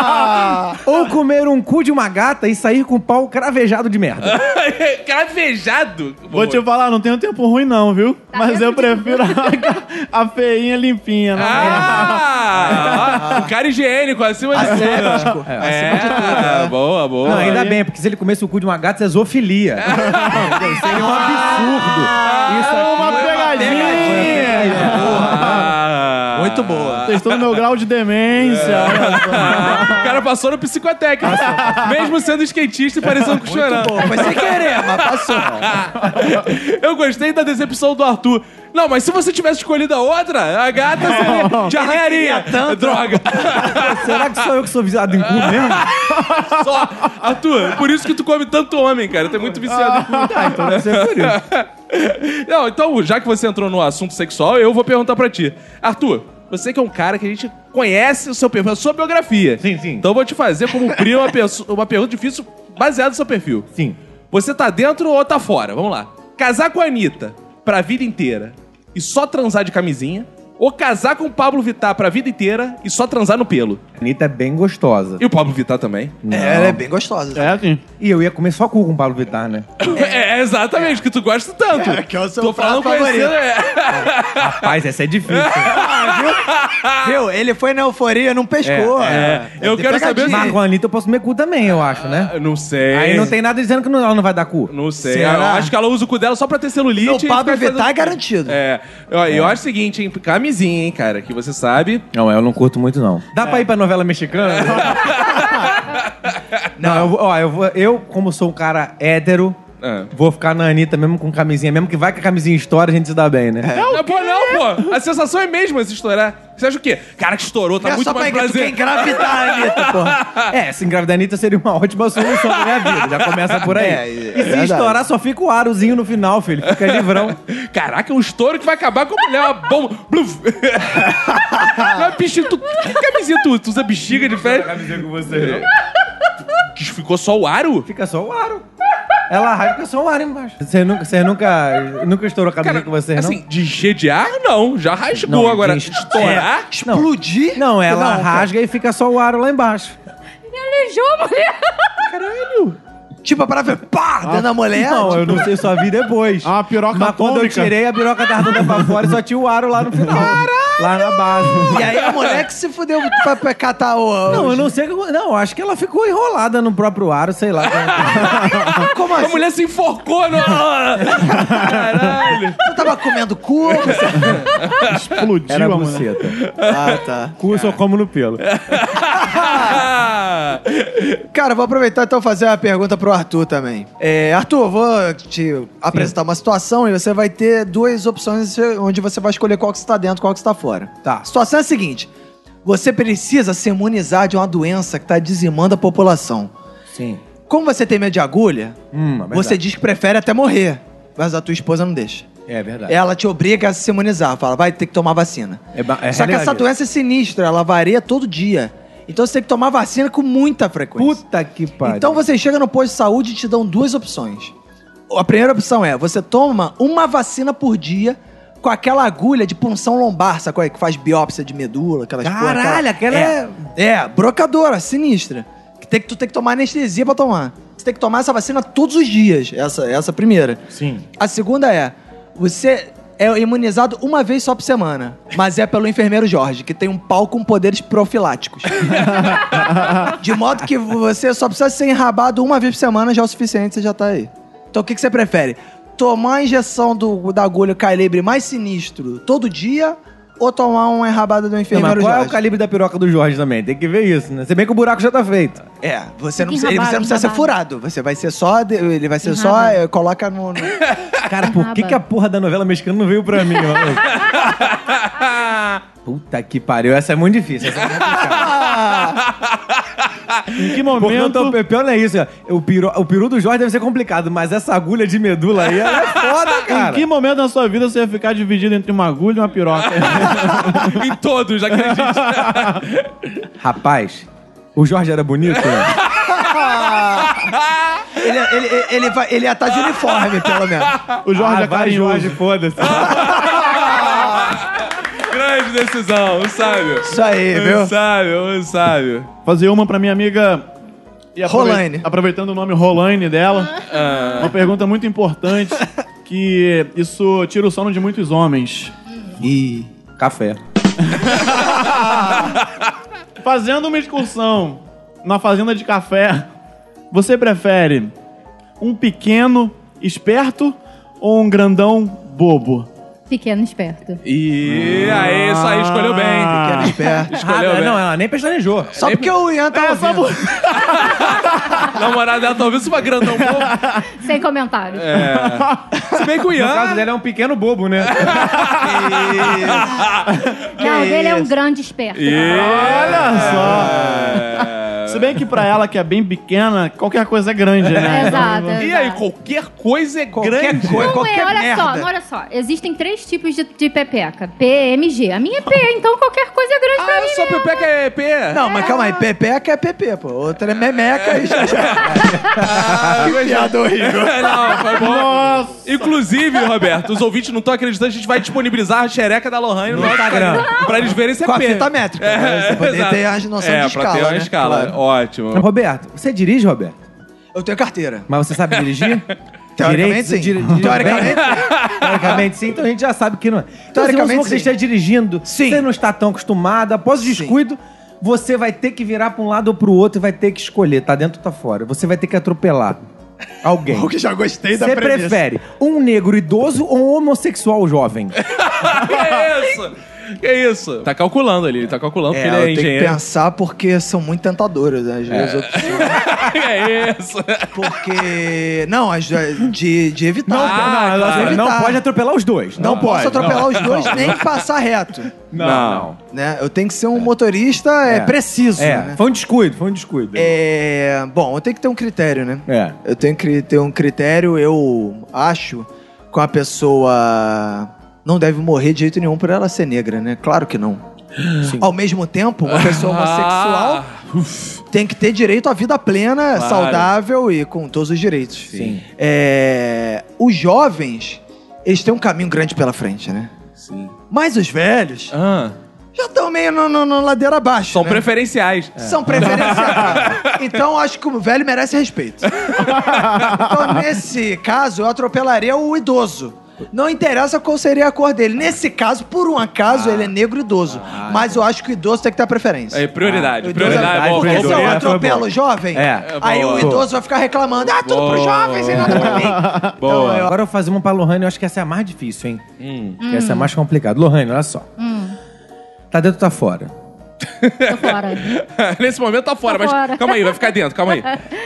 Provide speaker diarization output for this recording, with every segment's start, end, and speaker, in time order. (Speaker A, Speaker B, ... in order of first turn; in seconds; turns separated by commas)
Speaker A: 0.8-4.4, Speaker B: 4.2-6.6, Speaker C: 6.3-12.2, Speaker D: 8.3-9.7, Speaker B: 11.3-17.6, Speaker A: 11.6-11.9, Speaker E: 12.6-13.5, Speaker E: 14.5-16.7, Speaker A: 15.5-16.0, Speaker A: 17.2-25.6, Speaker C: 17.3-17.8, Speaker B: 19.9-27.5, Speaker C: 19.9-20.8, Speaker E: 20.7-21.6, Speaker E: 22.3-25.6, Speaker C: 22.7-25.6, Speaker E: 26.3-27.1, Speaker C: 27.0-30.1, Speaker B: 28.4-44.3, Speaker C: 31.4-31.9, Speaker E: 33.4-35.8, Speaker E: 41.1-43.7, Speaker C: 41.1-41.7, Speaker A: 43.6-46.0, Speaker B: 45.2-63.7, Speaker C: 49.8-50.5, Speaker A: 50.1-51.4, Speaker A: 59.6-60.1, Speaker B: 64.3-73.8, Speaker A: 74.0-75.2, Speaker B: 75.2-76.2, Speaker A: 76.2-76.8, Speaker E: 76.3-77.6, Speaker C: 77.3-77.8, Speaker A: 78.0-79.7, Speaker B: 79.8-84.7, Speaker E: 80.0-80.2, Speaker E: 81.7-83.4, Speaker A: 84.4-85.8, Speaker B: 85.3-87.1, Speaker E: 85.7-86.5, Speaker E: 87.0-90.6, Speaker A: 88.6-89.4, Speaker B: 89.0-90.5, Speaker A: 90.2-92.3, Speaker B: 92.0-93.3, Speaker A: 92.9-94.7, Speaker B: 94.7-102.0, Speaker E: 95.0-95.7, Speaker E: 97.0-98.6, Speaker A: 99.3-99.6, Speaker A: 102.1-105.2, Speaker B: 104.5-106.4, Speaker E: 106.8-107.1, Speaker A: 106.8-109.6, Speaker B: 109.8-110.1, Speaker A: 110.1-113.7, Speaker E: 113.6-114.0, Speaker C: 113.8-114.5, Speaker B: 113.9-120.5, Speaker E: 117.8-120.2, Speaker A: 120.5-127.4, Speaker B: 122.2-123.6, Speaker E: 123.7-125.0, Speaker B: 126.7-135.7, Speaker E: 131.6-132.0, Speaker A: 134.1-135.7, Speaker B: 136.8-137.9, Speaker A: 137.8-138.7, Speaker A: 139.3-143.4, Speaker B: 142.6-146.7, Speaker A: 145.2-150.0, Speaker E: 146.2-148.5, Speaker D: 150.5-151.9, Speaker B: 152.1-152.8, Speaker E: 153.2-155.5, Speaker C: 154.2-154.5, Speaker A: 154.8-161.9, Speaker C: 155.0-155.3, Speaker C: 156.4-157.7, Speaker C: 158.6-158.9, Speaker E: 161.6-164.7, Speaker B: 162.0-162.4, Speaker A: 164.3-168.6, Speaker B: 167.7-172.6, Speaker C: 168.3-168.7, Speaker E: 168.8-169.4, Speaker E: 172.6-174.5, Speaker B: 173.7-174.9, Speaker C: 174.8-176.1, Speaker A: 175.5-176.4, Speaker B: 176.4-177.0, Speaker E: 176.7-177.4, Speaker A: 177.4-178.4, Speaker B: 177.5-177.8, Speaker B: 178.4-181.2, Speaker E: 179.2-179.8, Speaker E: 181.3-192.1, Speaker E: 192.7-196.5, Speaker A: 196.9-197.2, Speaker E: 197.5-198.8, Speaker A: 198.9-199.6, Speaker E: 199.3-202.3, Speaker A: 202.5-203.0, Speaker E: 202.9-211.2, Speaker A: 205.8-206.7, Speaker A: 211.0-212.2, Speaker E: 211.8-214.5, Speaker E: 215.1-230.6, Speaker A: 222.2-223.6, Speaker A: 230.7-231.1, Speaker E: 231.2-238.9, Speaker B: 238.8-239.4, Speaker E: 240.1-252.4, Speaker A: 251.7-255.6, Speaker E: 255.8-260.8, Speaker D: 256.4-257.5, Speaker D: 259.2-259.8, Speaker A: 261.3-264.2, Speaker D: 261.4-262.0, Speaker B: 264.2-265.8, Speaker A: 266.1-268.6, Speaker B: 267.9-270.4, Speaker E: 268.4-269.2, Speaker C: 270.6-271.6, Speaker A: 270.9-277.1, Speaker B: 275.8-276.4, Speaker C: 276.7-281.0, Speaker B: 279.9-283.1, Speaker C: 282.2-282.5, Speaker A: 283.6-286.0, Speaker B: 285.7-286.5, Speaker E: 286.3-287.5, Speaker B: 287.3-288.1, Speaker E: 288.2-291.0, Speaker B: 289.8-291.1, Speaker C: 291.2-292.4, Speaker A: 291.4-293.5, Speaker B: 292.8-299.3, Speaker E: 293.1-294.6, Speaker E: 297.1-297.9, Speaker C: 299.5-300.7, Speaker C: 301.4-303.8, Speaker E: 301.5-302.1, Speaker B: 303.9-304.6, Speaker C: 304.4-308.9, Speaker E: 309.4-309.9, Speaker A: 310.2-310.6, Speaker C: 311.1-312.3, Speaker C: 313.4-316.5, Speaker C: 317.1-318.1, Speaker C: 318.8-322.9, Speaker D: 323.3-324.2, Speaker B: 324.2-328.0, Speaker C: 324.9-327.0, Speaker E: 326.5-327.3, Speaker A: 327.3-329.0, Speaker E: 329.0-330.3, Speaker B: 329.0-329.3, Speaker C: 329.7-331.9, Speaker B: 330.8-333.8, Speaker C: 333.4-334.1, Speaker D: 334.2-335.2, Speaker B: 335.0-337.1, Speaker C: 335.2-336.0, Speaker A: 336.5-338.4, Speaker B: 338.1-340.3, Speaker E: 338.8-340.0, Speaker C: 340.3-340.6, Speaker D: 340.8-342.9, Speaker B: 342.1-345.4, Speaker C: 342.5-343.9, Speaker E: 343.3-344.4, Speaker C: 345.1-348.9, Speaker B: 347.9-351.1, Speaker D: 348.1-349.2, Speaker E: 350.3-352.1, Speaker D: 350.9-357.9, Speaker B: 357.0-358.7, Speaker E: 358.5-362.5, Speaker D: 358.7-359.2, Speaker B: 361.2-375.7, Speaker A: 362.0-363.3, Speaker E: 363.1-364.9, Speaker C: 365.0-366.1, Speaker A: 369.9-370.9, Speaker E: 369.9-370.5, Speaker E: 371.4-375.0, Speaker A: 375.5-377.0, Speaker E: 377.5-378.3, Speaker A: 378.3-379.3, Speaker E: 379.8-381.9, Speaker A: 379.8-393.0, Speaker B: 381.0-382.3, Speaker E: 383.9-384.7, Speaker E: 385.5-385.8, Speaker E: 387.2-387.6, Speaker A: 393.6-394.1, Speaker E: 393.9-395.4, Speaker A: 394.7-398.4, Speaker B: 398.4-403.2, Speaker E: 402.4-406.4, Speaker A: 405.3-405.9, Speaker B: 405.3-408.0, Speaker E: 407.7-412.0, Speaker A: 410.5-414.4, Speaker B: 410.5-411.7, Speaker E: 412.8-415.3, Speaker B: 412.8-414.5, Speaker A: 415.5-416.2, Speaker B: 415.6-416.1, Speaker E: 416.3-419.2, Speaker A: 418.1-420.6, Speaker E: 420.4-431.0, Speaker A: 422.7-423.0, Speaker A: 431.6-431.9, Speaker E: 431.7-434.1, Speaker B: 432.7-434.8, Speaker E: 434.9-443.5, Speaker B: 436.5-437.1, Speaker A: 438.7-439.0, Speaker B: 443.8-444.1, Speaker E: 444.3-445.3, Speaker B: 445.3-445.8, Speaker E: 446.1-448.2, Speaker B: 447.9-450.4, Speaker A: 449.0-450.2, Speaker E: 449.0-452.6, Speaker B: 452.5-453.5, Speaker E: 453.5-463.1, Speaker A: 459.9-460.3, Speaker A: 460.9-461.6, Speaker B: 462.9-465.3, Speaker A: 463.2-467.1, Speaker E: 463.6-470.5, Speaker B: 466.2-467.0, Speaker B: 467.9-470.5, Speaker C: 469.3-469.9, Speaker A: 470.4-472.6, Speaker B: 472.8-473.2, Speaker D: 473.2-473.7, Speaker A: 473.2-474.9, Speaker D: 475.0-475.4, Speaker A: 476.1-476.9, Speaker B: 477.6-481.3, Speaker D: 477.9-478.5, Speaker D: 479.7-481.4